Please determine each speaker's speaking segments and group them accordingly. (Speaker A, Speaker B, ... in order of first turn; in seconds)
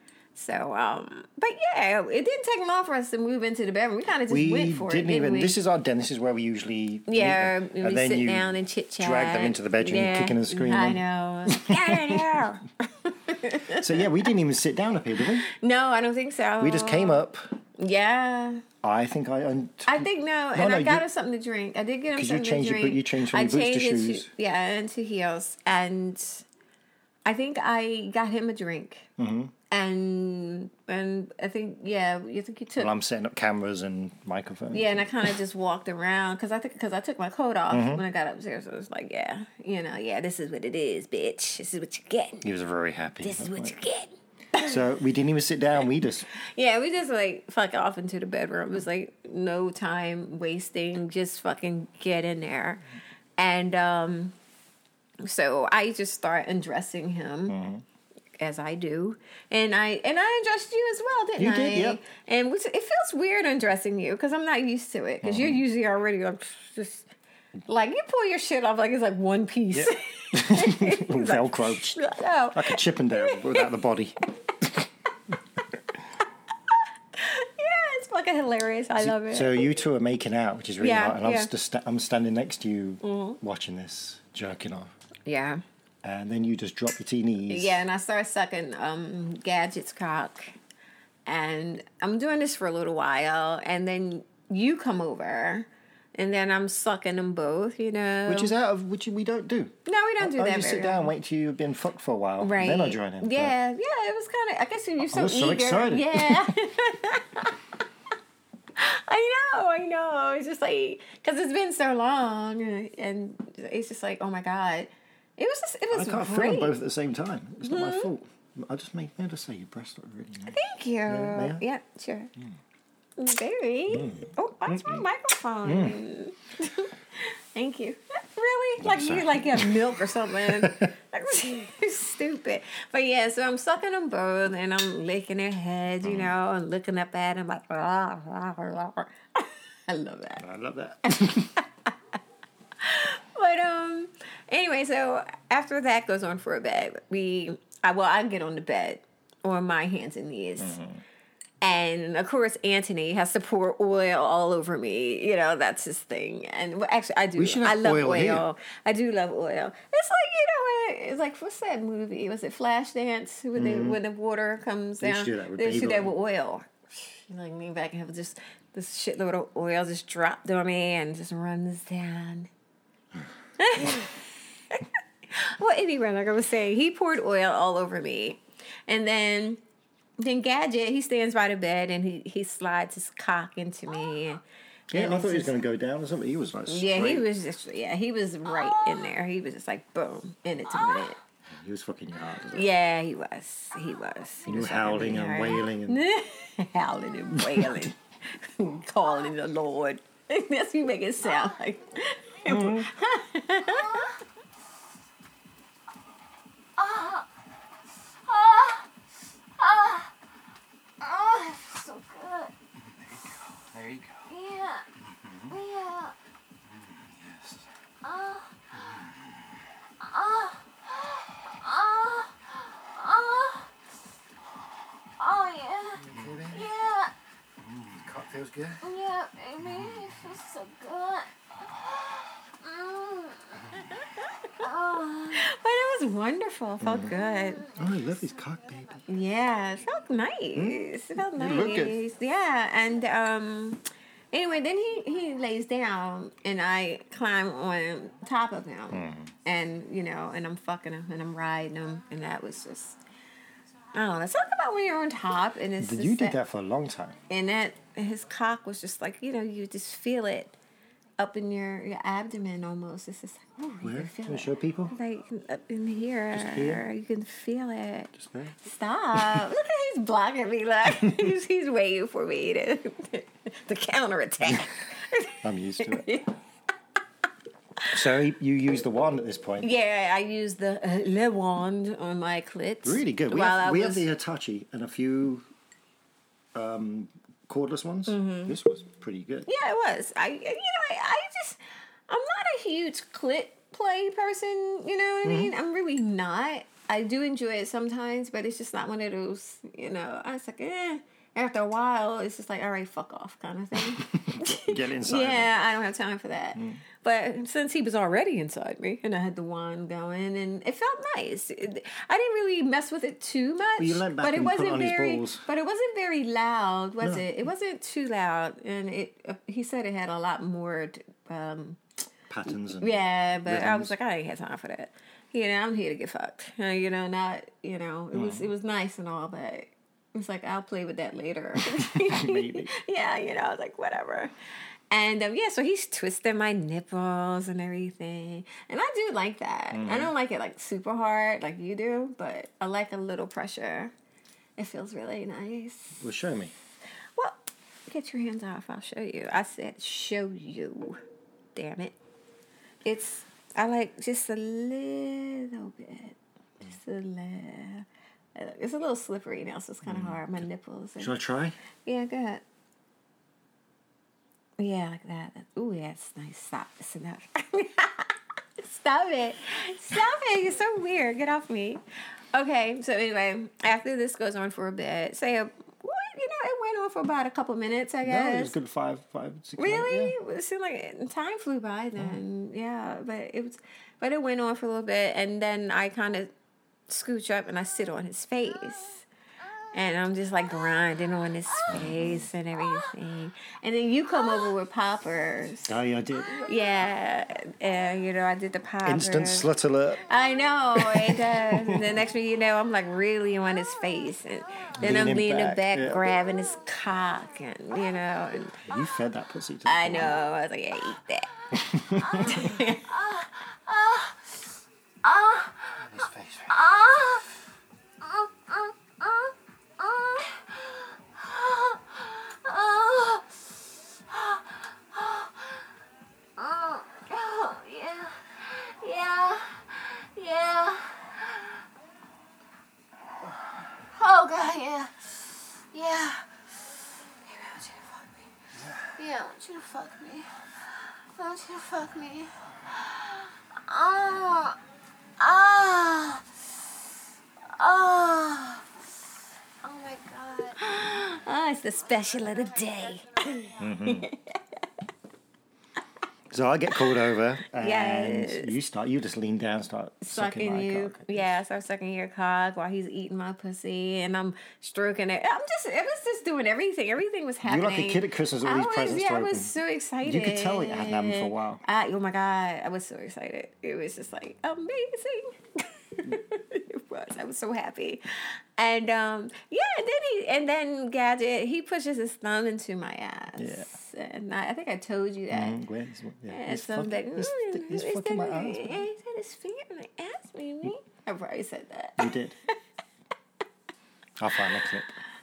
Speaker A: 0.3-5.5, 7.1-14.3, 15.5-17.2, 17.8-18.6, 19.9-26.4, 27.2-29.1, 29.7-32.9, 34.7-42.5, 43.2-44.7, 46.4-52.8, 53.4-54.4, 55.2-57.6, 58.4-67.1, 67.7-73.7, 77.1-79.7, 80.8-81.5, 83.0-83.4, 85.3-85.6, 87.5-90.5, 91.3-98.5, 99.9-101.1, 102.4-107.6, 108.8-116.8, 117.6-118.1, 120.5-122.3, 123.2-140.4, 141.1-141.6, 142.8-150.8, 151.6-172.5, 173.6-174.2, 174.7-179.6, 180.2-185.5, 186.7-191.2, 192.5-204.1, 235.3-237.7, 239.1-243.8, 244.3-253.0, 253.9-256.4, 257.3-260.6, 261.2-276.3, 279.6-284.1, 288.1-288.6, 289.5-321.8, 322.8-334.3, 334.9-343.9, 344.6-346.0, 347.2-351.0, 351.6-351.9, 352.9-361.1, 361.9-362.4, 364.6-371.8, 372.3-378.6, 379.6-386.3, 386.9-389.1, 389.7-395.8, 396.4-399.5, 400.1-408.7, 409.6-411.3, 412.2-412.9, 450.6-454.4, 457.5-458.5, 460.0-485.6, 486.3-492.1
Speaker B: 4.3-12.4, 13.7-15.5, 16.6-17.5, 18.8-21.1, 22.1-24.3, 29.2-29.5, 32.8-35.3, 37.7-38.0, 42.4-43.8, 44.5-46.3, 57.5-57.8, 61.4-62.0, 65.2-65.6, 69.7-74.9, 79.0-84.9, 86.0-87.8, 98.3-103.5, 105.0-106.5, 115.9-121.6, 123.9-125.1, 125.6-126.0, 128.8-130.9, 136.0-136.3, 140.4-141.6, 150.6-151.0, 157.4-158.4, 163.6-164.0, 165.0-166.1, 184.9-187.3, 191.5-192.7, 194.5-196.1, 197.3-197.9, 202.5-202.9, 226.0-226.7, 228.0-228.8, 236.8-237.1, 237.8-239.0, 240.6-242.0, 248.9-249.3, 255.8-257.2, 263.8-264.9, 266.3-266.9, 268.2-268.6, 269.2-269.5, 271.0-271.3, 275.4-276.2, 277.9-279.7, 282.8-285.5, 286.5-289.5, 295.2-295.5, 304.0-305.5, 306.6-306.8, 313.8-315.4, 317.0-317.3, 322.3-323.9, 328.1-328.5, 331.7-332.7, 339.7-340.1, 346.0-346.5, 359.8-360.4, 361.0-361.6, 378.0-380.1, 391.7-392.3, 395.6-396.5, 398.8-400.1, 400.8-401.9, 404.8-406.1, 408.6-410.3, 411.5-412.5, 415.9-416.5, 453.6-454.1, 456.3-461.4, 467.4-471.6, 483.4-483.7, 485.3-488.9, 492.0-492.4, 494.2-495.0
Speaker C: 203.7-204.1, 206.8-207.2, 208.3-208.9, 209.6-210.1, 211.0-212.5, 214.3-214.8, 215.5-216.1, 218.0-218.6, 220.0-223.7, 225.2-227.1, 228.8-233.7, 234.6-235.5, 237.0-238.4, 412.2-414.2, 415.0-415.8, 416.5-417.3, 418.0-423.4, 424.1-425.5, 426.4-431.4, 433.9-436.4, 437.3-438.1, 439.0-440.4, 441.0-444.6, 445.2-446.4, 447.5-448.7, 449.6-450.6
Speaker D: 212.9-214.3, 215.0-215.6, 216.7-217.7, 218.7-219.3, 226.1-226.4, 227.6-227.9